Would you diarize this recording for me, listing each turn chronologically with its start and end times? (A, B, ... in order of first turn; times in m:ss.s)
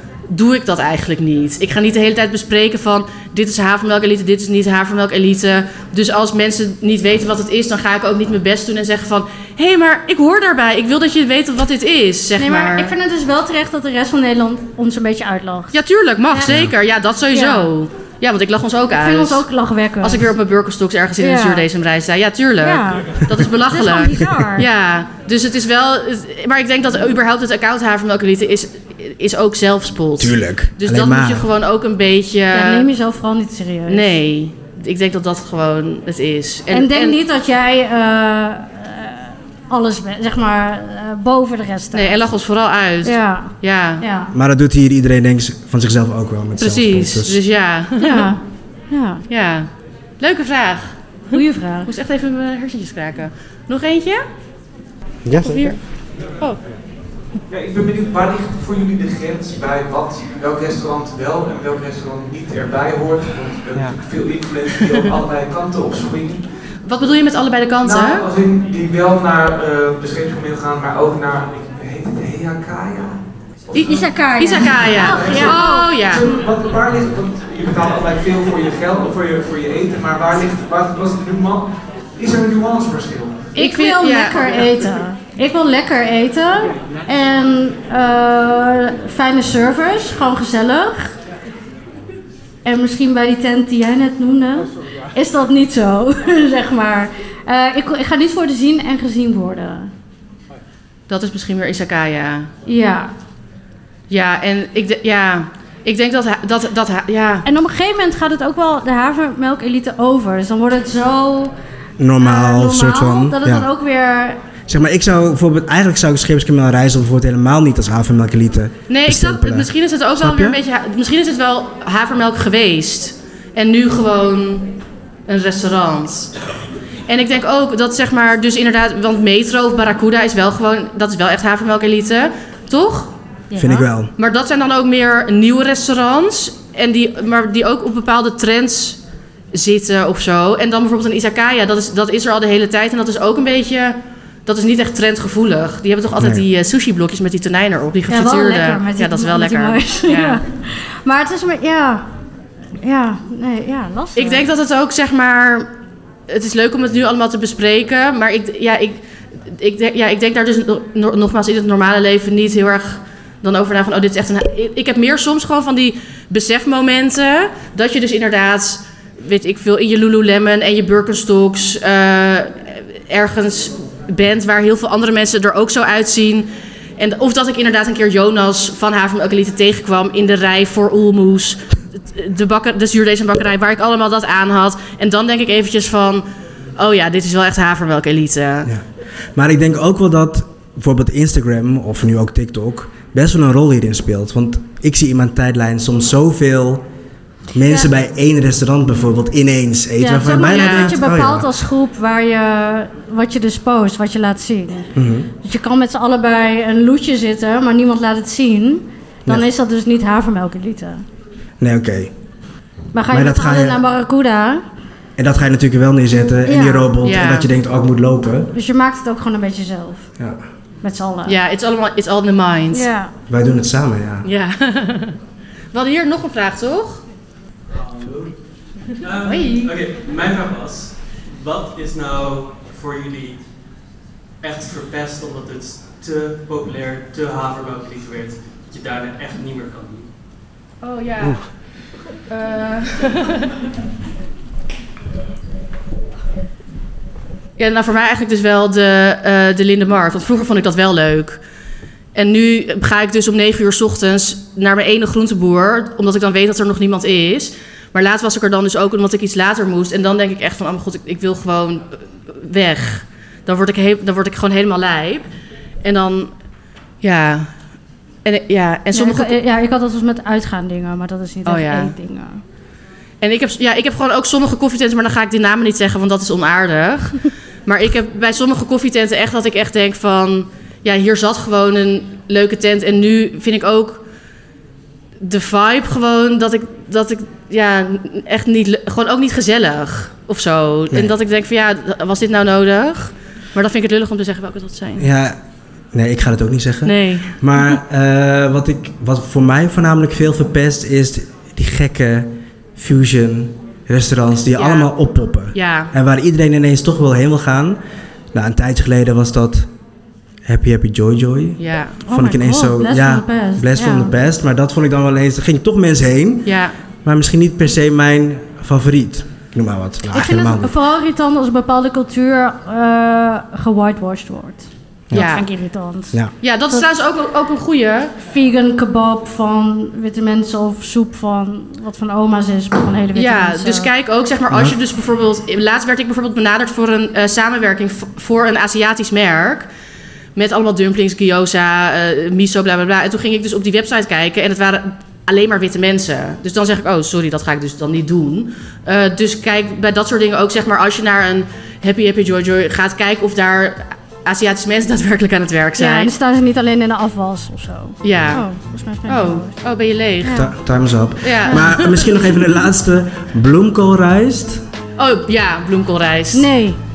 0:00.3-0:12.9 A
0:12.4-0:15.8 B
0:15.7-0:19.4 A
0:16.3-0:16.7 B
0:17.3-0:17.7 B
0:18.9-0:20.3 B
0:20.0-0:32.9 A
0:21.2-0:21.7 B
0:22.6-0:24.6 B
0:30.2-0:31.5 C
0:32.5-0:34.2 B
0:33.9-0:37.2 A
0:36.7-0:42.2 B
0:41.9-0:44.0 A
0:43.0-0:44.3 B
0:44.3-0:47.4 C
0:46.6-0:48.3 A
0:48.0-0:49.2 B
0:49.3-0:49.7 A
0:50.2-0:54.3 A
0:51.3-0:51.9 B
0:55.2-0:55.8 C
0:55.4-0:55.8 A
0:57.5-1:06.4 D
1:06.9-1:08.3 A
1:07.8-1:13.2 D
1:13.7-1:16.3 A
1:13.8-1:15.9 B
1:15.0-1:23.5 D
1:23.6-1:24.8 A
1:23.6-1:31.2 B
1:32.6-1:39.9 B
1:41.1-1:42.5 A
1:42.7-1:43.1 B
1:44.1-1:47.4 A
1:47.4-1:51.6 B
1:52.0-1:53.7 C
1:52.2-1:54.4 B
1:54.7-2:00.6 C
1:58.9-2:04.7 A
2:05.3-2:06.3 A
2:07.1-2:13.1 A
2:13.5-2:13.9 B
2:13.6-2:14.1 C
2:14.2-2:19.0 A
2:19.5-2:30.4 A
2:26.2-2:26.4 C
2:28.1-2:32.1 B
2:32.8-2:34.5 B
2:34.2-2:35.7 A
2:36.3-3:08.7 A
3:08.6-3:16.9 C
3:17.5-3:21.5 C
3:20.0-3:31.0 B
3:20.4-3:21.0 A
3:25.0-3:25.3 C
3:31.6-3:32.1 C
3:32.9-3:34.6 B
3:33.1-3:33.8 C
3:35.2-3:38.5 C
3:36.5-3:37.0 B
3:37.0-3:37.5 A
3:38.6-3:40.1 B
3:40.2-3:40.4 C
3:40.8-3:41.4 B
3:41.3-3:42.9 A
3:42.7-3:43.1 B
3:43.3-3:44.3 C
3:44.2-3:45.2 A
3:45.7-3:47.0 A
3:47.7-3:48.4 E
3:49.0-3:53.4 E
3:49.3-3:49.7 A
3:54.4-4:00.1 E
4:00.8-4:01.4 A
4:02.3-4:03.5 A
4:07.6-4:11.4 A
4:12.2-4:25.3 A
4:25.8-4:26.3 A
4:27.0-4:27.5 A
4:28.2-4:29.4 A
4:28.9-4:32.4 B
4:31.4-4:31.9 A
4:33.2-4:44.0 A
4:45.2-4:55.1 A
4:55.0-4:55.4 C
4:55.9-5:07.8 C
4:56.8-4:57.4 A
5:04.6-5:04.9 A
5:05.5-5:05.9 A
5:08.3-5:09.7 C
5:10.4-5:16.5 C
5:11.6-5:12.0 A
5:12.1-5:14.1 B
5:16.5-5:16.8 A
5:17.0-5:20.8 C
5:20.1-5:26.8 B
5:25.1-5:25.4 A
5:26.4-5:28.2 A
5:28.2-5:33.9 B
5:33.2-5:39.7 A
5:40.4-5:56.1 A
5:55.8-5:59.5 B
5:58.0-5:58.4 A
5:59.1-6:00.4 A
6:00.2-6:00.5 B
6:00.3-6:04.6 C
6:01.2-6:02.0 A
6:01.5-6:01.8 B
6:05.0-6:06.5 A
6:06.3-6:06.8 B